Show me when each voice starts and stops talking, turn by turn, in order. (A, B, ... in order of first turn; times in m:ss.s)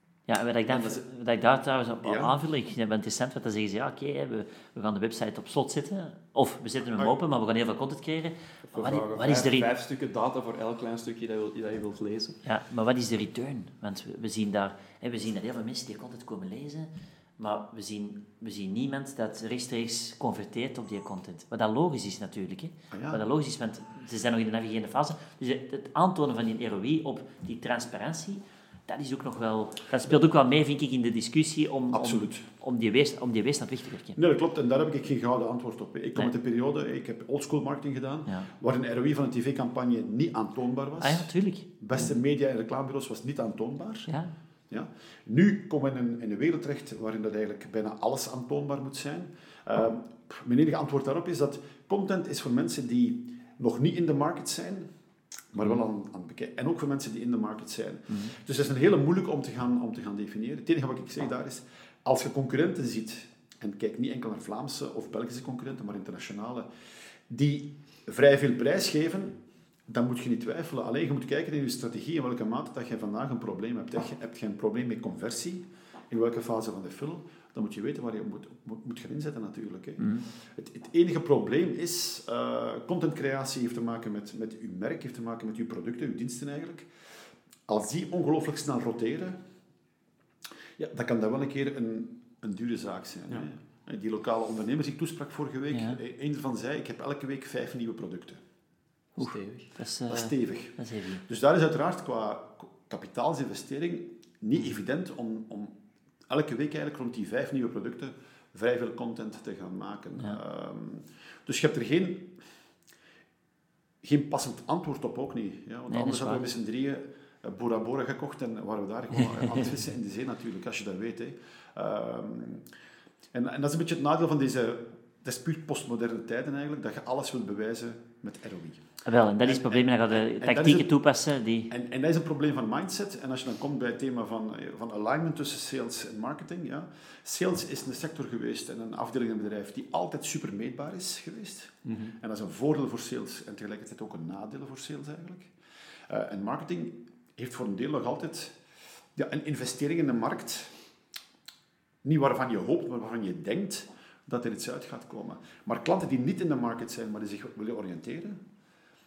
0:00.3-0:09.7 A
0:00.7-0:01.0 B
0:02.0-0:02.4 B
0:08.7-0:12.4 C
0:12.4-0:34.2 A
0:22.9-0:23.2 B
0:31.9-0:32.5 B
0:34.1-0:44.1 B
0:41.0-0:41.7 A
0:44.1-0:44.3 A
0:44.7-0:54.9 B
0:55.5-1:06.7 B
1:07.3-1:09.4 B
1:09.9-1:26.9 B
1:20.0-1:20.2 A
1:27.7-1:29.4 B
1:30.8-1:38.4 B
1:35.7-1:36.0 A
1:39.2-1:41.2 A
1:39.2-1:39.7 C
1:40.1-1:45.7 B
1:46.3-1:52.3 B
1:54.0-2:02.6 B
1:55.9-1:56.4 A
2:03.3-2:08.9 B
2:09.0-2:11.7 A
2:09.4-2:10.9 B
2:11.7-2:25.5 B
2:21.8-2:22.2 C
2:26.1-2:28.6 B
2:29.1-2:30.7 B
2:32.0-2:38.4 B